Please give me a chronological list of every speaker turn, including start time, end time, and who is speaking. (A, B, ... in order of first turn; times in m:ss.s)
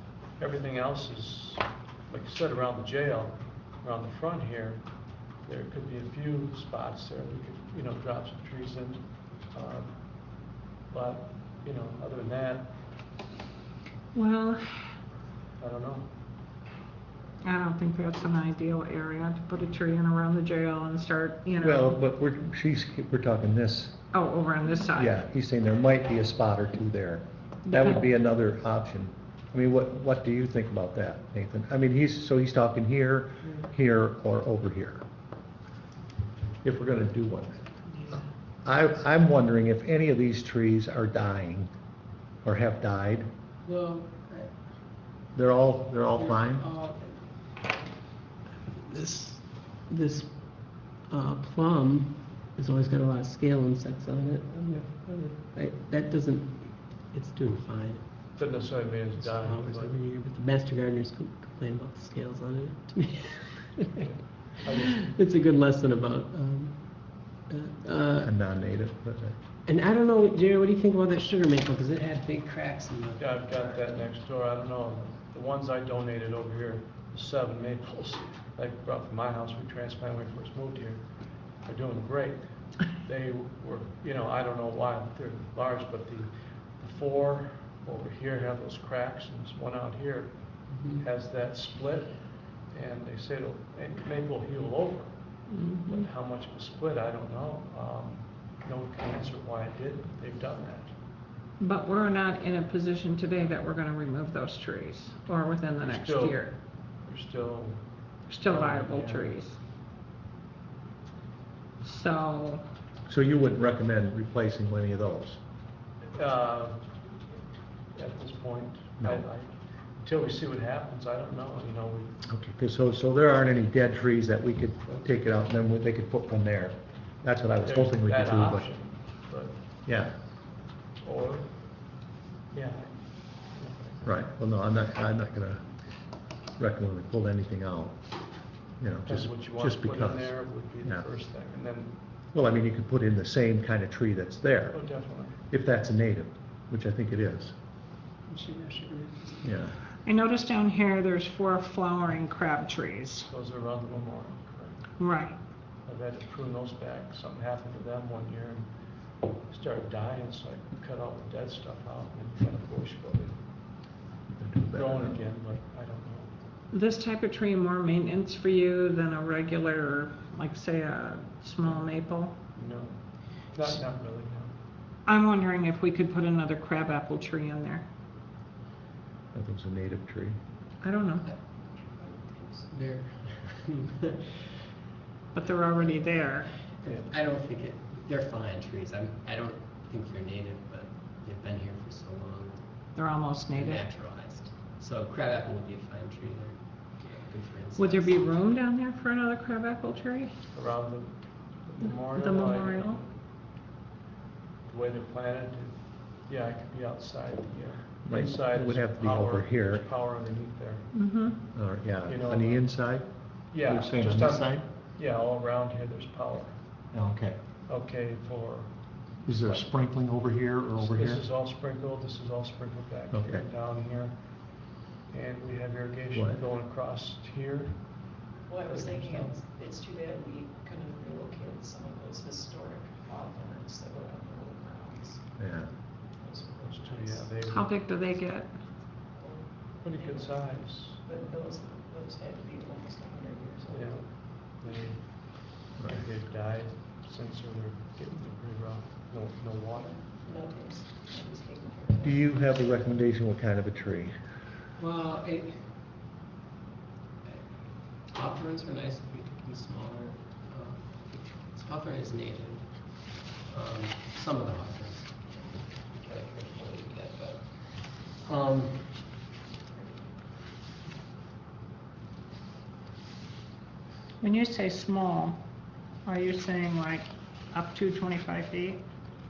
0:00.4-0:04.8 A
0:05.4-0:10.1 A
0:10.9-0:12.7 A
0:14.1-0:14.9 B
0:15.6-0:16.1 A
0:17.4-0:22.0 B
0:21.6-0:24.0 C
0:24.1-0:25.2 B
0:25.0-0:35.0 C
0:27.7-0:28.0 B
0:36.6-0:37.6 C
0:38.1-0:41.7 C
0:42.4-0:43.3 C
0:43.6-0:44.5 D
0:45.3-0:46.6 C
0:46.2-0:47.2 D
0:48.7-0:50.4 D
0:51.1-0:58.1 D
0:58.4-1:00.0 A
0:59.2-1:04.1 D
1:04.0-1:05.1 A
1:04.8-1:08.3 D
1:08.2-1:09.4 C
1:09.7-1:13.9 D
1:13.2-1:21.0 A
1:21.6-1:30.3 A
1:30.7-1:31.0 D
1:30.9-1:32.2 A
1:32.7-1:35.1 A
1:35.5-1:36.1 B
1:35.8-1:40.9 A
1:41.6-1:46.6 B
1:45.8-1:46.4 A
1:47.0-1:47.8 A
1:48.3-1:49.6 B
1:48.4-1:49.4 A
1:51.8-1:52.6 B
1:53.1-1:55.4 C
1:56.1-1:56.9 A
1:58.0-1:59.5 A
2:00.0-2:02.2 A
2:02.3-2:08.7 C
2:07.6-2:09.6 A
2:09.8-2:10.1 C
2:11.0-2:11.6 A
2:12.5-2:14.2 A
2:14.0-2:15.7 C
2:16.6-2:18.0 C
2:18.8-2:21.0 C
2:19.1-2:22.0 A
2:22.3-2:24.8 C
2:24.7-2:25.4 A
2:25.5-2:27.5 C
2:28.3-2:29.5 D
2:29.4-2:29.8 C
2:30.0-2:33.3 B
2:33.3-2:34.9 A
2:35.0-2:35.4 B
2:35.8-2:38.7 A
2:39.5-2:43.4 A
2:44.3-2:45.2 C
2:44.7-2:46.4 A
2:46.7-2:52.3 B
2:51.6-2:51.9 A
2:52.5-2:53.0 A
2:53.5-2:54.5 A
2:55.1-2:57.8 B
2:59.3-3:00.4 C
3:00.8-3:01.3 B
3:01.3-3:04.5 D
3:05.3-3:06.6 B
3:05.4-3:06.2 D
3:06.7-3:12.7 D
3:12.9-3:13.8 B
3:13.5-3:18.3 D
3:17.8-3:20.3 B
3:20.5-3:23.1 A
3:21.8-3:23.0 B
3:24.7-3:30.9 A
3:28.1-3:29.8 C
3:30.9-3:31.4 B
3:31.5-3:34.7 C
3:32.0-3:32.6 A
3:33.5-3:36.6 A
3:36.9-3:37.4 C
3:37.7-3:38.7 A
3:39.2-3:41.2 C
3:39.3-3:39.7 A
3:40.8-3:44.2 A
3:43.1-3:43.5 C
3:45.1-3:48.0 A
3:46.1-3:46.4 C
3:48.5-3:55.2 E
3:48.7-3:49.4 A
3:55.4-3:55.7 C
3:56.2-3:57.2 E
3:56.6-3:57.7 A
3:57.5-3:58.5 B
3:59.2-3:59.5 E
3:59.8-4:01.0 A
4:01.1-4:03.8 E
4:03.7-4:10.0 A
4:05.8-4:06.0 C
4:10.3-4:12.1 E
4:12.0-4:14.2 C
4:14.8-4:15.7 D
4:18.1-4:29.1 D
4:34.2-4:35.4 B
4:36.0-4:38.8 B